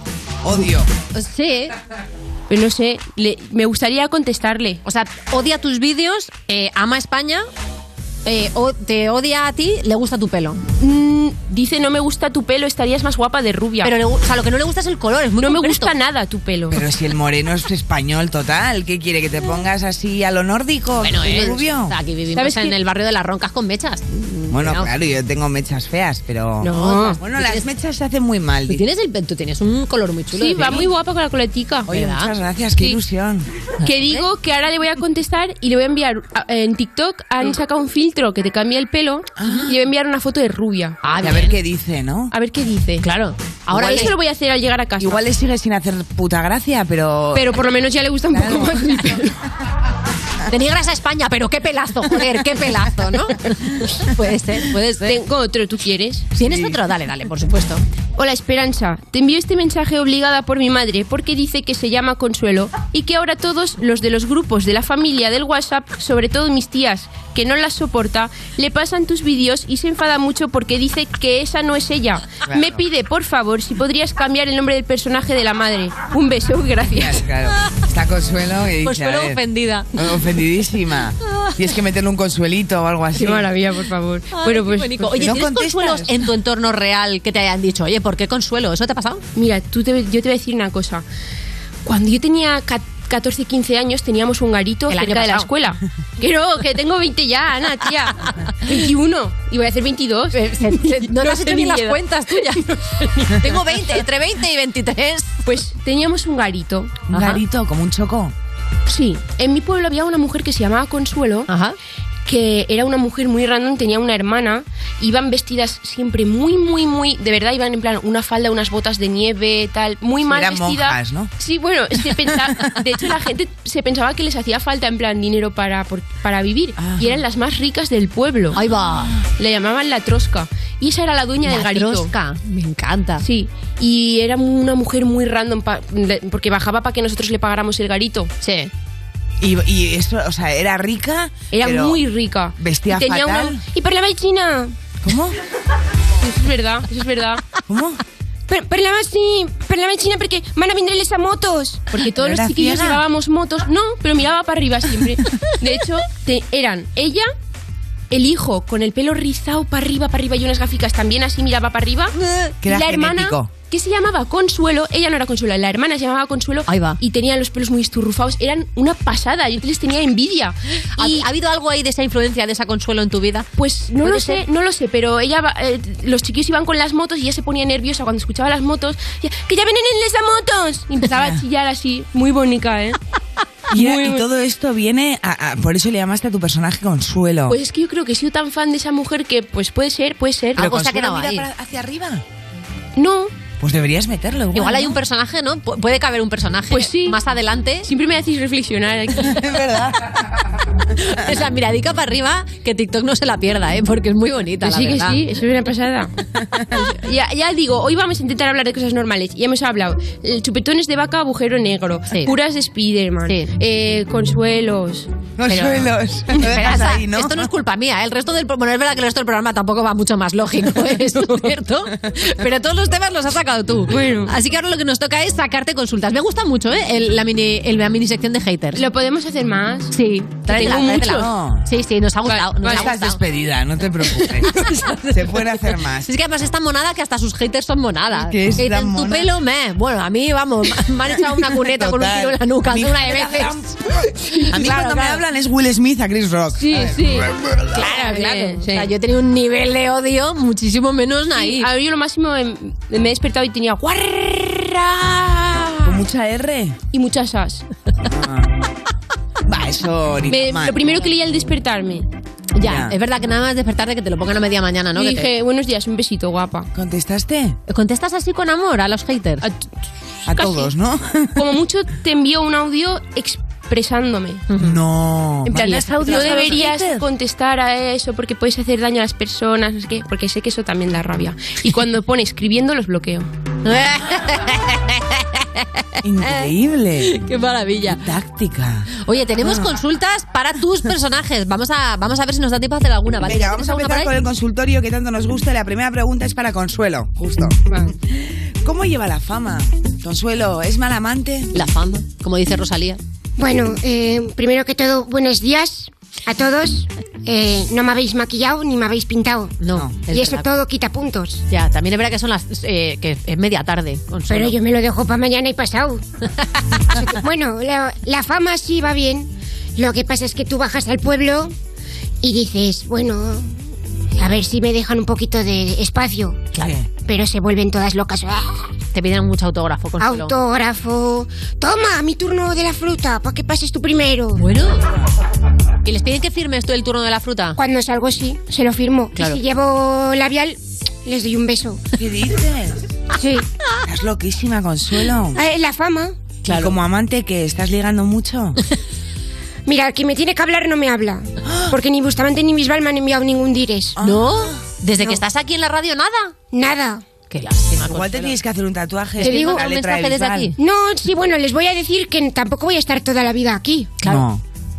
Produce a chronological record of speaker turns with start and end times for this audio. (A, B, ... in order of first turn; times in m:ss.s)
0:00.4-0:00.9 A
0:00.6-0:01.7 B
0:02.5-0:04.8 C
0:04.8-0:07.4 B
0:08.2-0:10.6 B
0:10.8-0:13.9 C
0:13.8-0:15.9 B
0:15.4-0:16.8 C
0:16.7-0:21.9 A
0:21.0-0:24.9 B
0:22.3-0:22.7 C
0:24.5-0:28.8 A
0:26.6-0:27.2 C
0:26.6-0:27.6 B
0:28.7-0:30.9 B
0:30.3-0:31.9 C
0:31.9-0:33.5 A
0:31.9-0:32.3 B
0:33.8-0:41.0 C
0:33.8-0:34.2 B
0:39.4-0:39.7 A
0:41.0-0:41.5 B
0:41.2-0:42.3 A
0:42.3-0:43.0 C
0:43.0-0:44.1 B
0:43.7-0:45.2 C
0:45.0-0:47.6 A
0:47.3-0:49.3 C
0:48.3-0:49.2 A
0:50.5-0:55.2 B
0:55.0-0:56.3 C
0:56.3-0:57.8 B
0:56.4-0:56.8 A
0:58.2-1:17.2 C
1:12.5-1:12.8 A
1:16.9-1:19.4 A
1:18.8-1:19.9 B
1:20.0-1:23.5 A
1:23.2-1:25.4 C
1:24.3-1:29.2 B
1:25.2-1:26.2 A
1:29.3-1:31.0 C
1:31.8-1:42.8 C
1:34.9-1:35.5 B
1:40.3-1:45.4 B
1:45.4-1:47.0 C
1:47.1-1:48.3 A
1:47.1-1:47.4 B
1:48.9-1:51.5 C
1:51.5-1:51.8 B
1:52.2-2:08.6 C
2:00.2-2:01.3 A
2:06.8-2:07.2 A
2:08.5-2:09.1 B
2:09.4-2:12.1 C
2:11.4-2:13.2 B
2:13.2-2:18.3 C
2:18.4-2:18.7 B
2:19.4-2:22.0 A
2:21.5-2:24.7 C
2:22.6-2:23.6 A
2:25.0-2:25.4 A
2:26.2-2:27.4 C
2:27.6-2:28.0 A
2:28.5-2:31.8 D
2:31.9-2:37.3 C
2:32.0-2:33.0 A
2:38.1-2:42.1 C
2:42.6-2:43.5 A
2:42.6-2:51.3 C
2:46.7-2:47.0 B
2:51.0-2:53.5 B
2:53.6-3:03.0 C
2:54.0-2:54.4 B
3:01.2-3:01.4 A
3:03.7-3:07.6 A
3:03.7-3:04.2 C
3:07.5-3:10.7 C
3:10.6-3:12.2 A
3:10.6-3:11.5 B
3:13.0-3:13.3 C
3:13.6-3:15.0 A
3:14.5-3:17.9 B
3:16.7-3:17.2 C
3:17.8-3:19.4 C
3:19.2-3:20.1 A
3:21.0-3:25.2 B
3:24.6-3:26.1 C
3:26.7-3:35.9 C
3:33.2-3:33.5 B
3:35.4-3:37.5 A
3:36.4-3:48.8 B
3:43.9-3:44.3 C
3:48.7-3:49.9 C
3:49.9-3:53.2 B
3:50.5-3:51.6 A
3:50.5-3:51.2 C
3:52.2-3:52.9 C
3:52.6-3:56.1 A
3:54.6-3:55.0 C
3:56.0-4:03.6 B
3:58.1-3:59.3 A
4:01.4-4:03.6 A
4:04.3-4:05.2 C
4:04.5-4:07.4 A
4:06.6-4:08.9 C
4:07.7-4:11.7 B
4:11.3-4:16.0 C
4:15.8-4:16.8 A
4:16.9-4:17.6 C
4:18.0-4:18.5 A
4:19.4-4:21.1 A
4:20.3-4:22.1 C
4:22.5-4:25.3 B
4:22.6-4:22.9 A
4:24.9-4:26.7 C
4:26.7-4:27.6 A
4:27.7-4:29.4 B
4:30.3-4:30.7 C
4:30.3-4:31.4 A
4:31.4-4:34.4 C
4:34.5-4:34.8 B
4:34.6-4:37.0 A
4:35.5-4:43.3 C
4:35.6-4:36.9 B
4:43.6-4:45.4 B
4:46.0-4:47.2 A
4:46.2-4:48.0 B
4:47.9-4:48.9 A
4:49.0-4:54.1 B
4:49.4-4:49.7 A
4:53.2-5:01.5 A
5:01.5-5:03.0 B
5:03.4-5:11.4 D
5:09.6-5:10.5 B
5:09.7-5:10.0 A
5:11.5-5:14.6 B
5:14.3-5:16.0 D
5:16.9-5:21.5 D
5:22.2-5:23.5 D
5:24.2-5:26.4 D
5:26.6-5:26.8 A
5:27.0-5:28.7 D
5:28.9-5:30.3 B
5:30.0-5:34.4 D
5:34.4-5:34.8 B
5:35.8-5:37.6 B
5:37.6-5:41.8 D
5:42.0-5:42.8 A
5:43.2-5:43.4 D
5:43.8-5:45.4 A
5:45.3-5:46.2 D
5:46.4-5:46.8 B
5:46.4-5:48.6 A
5:49.6-5:54.0 D
5:51.4-5:51.7 A
5:54.0-5:54.6 A
5:54.0-5:56.3 B
5:56.5-5:57.0 D
5:57.3-5:58.4 B
5:57.8-6:00.5 A
5:59.2-6:00.5 B
5:59.2-5:59.6 D
6:00.6-6:04.0 D
6:04.0-6:04.4 A